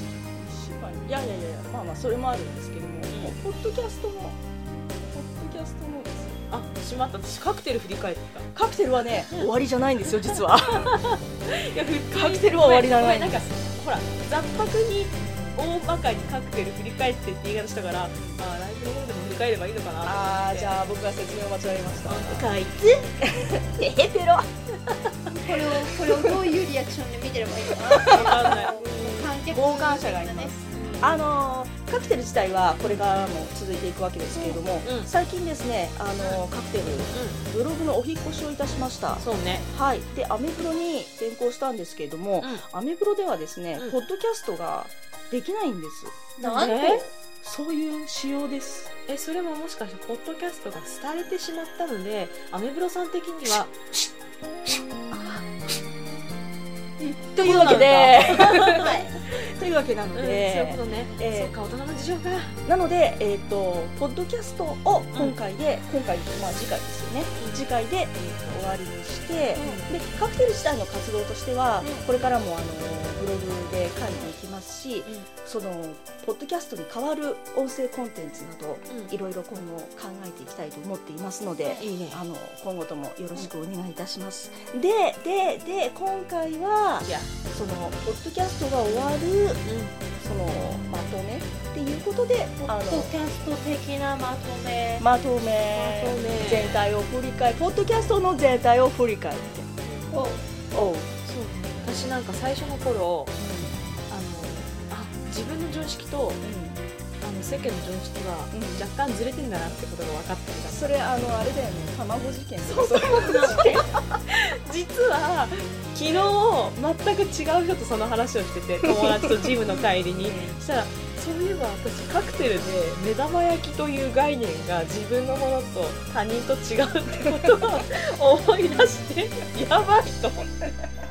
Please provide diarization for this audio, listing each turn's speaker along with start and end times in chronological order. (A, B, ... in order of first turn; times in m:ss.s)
0:00.4-0:04.4 A
0:03.1-0:03.4 B
0:05.1-0:06.5 A
0:06.5-0:08.5 B
0:08.5-0:10.9 A
0:10.1-0:20.8 B
0:12.1-0:13.5 A
0:20.0-0:24.5 A
0:22.0-0:22.8 B
0:25.4-0:30.6 C
0:25.9-0:26.4 A
0:28.0-0:28.7 A
0:28.1-0:29.4 B
0:29.4-0:46.4 A
0:30.7-0:31.4 B
0:32.8-0:33.3 B
0:34.8-0:35.1 B
0:36.2-0:36.4 B
0:37.1-0:37.4 B
0:39.2-0:39.6 B
0:42.4-0:42.6 B
0:46.4-0:47.1 C
0:46.4-0:47.0 B
0:47.3-0:48.9 A
0:49.1-0:53.7 B
0:53.5-0:54.0 A
0:54.7-0:55.5 A
0:57.0-0:57.3 C
0:57.4-0:59.0 B
0:57.4-1:01.5 A
0:58.7-0:59.1 C
1:00.1-1:02.6 B
1:02.6-1:29.6 A
1:07.4-1:07.7 B
1:09.6-1:09.8 C
1:09.6-1:09.9 B
1:18.9-1:19.1 B
1:21.8-1:22.2 B
1:27.0-1:27.3 B
1:29.6-1:29.9 B
1:30.1-1:33.2 A
1:32.6-1:35.0 C
1:35.0-1:39.7 A
1:35.7-1:36.9 B
1:39.8-1:40.2 B
1:40.1-1:40.4 C
1:40.7-1:41.1 A
1:41.2-1:43.3 B
1:43.4-1:43.8 A
1:44.1-1:46.4 B
1:46.4-1:46.8 A
1:47.2-1:51.0 B
1:48.5-1:48.8 A
1:50.7-1:53.9 A
1:52.6-2:10.5 B
2:00.1-2:00.6 A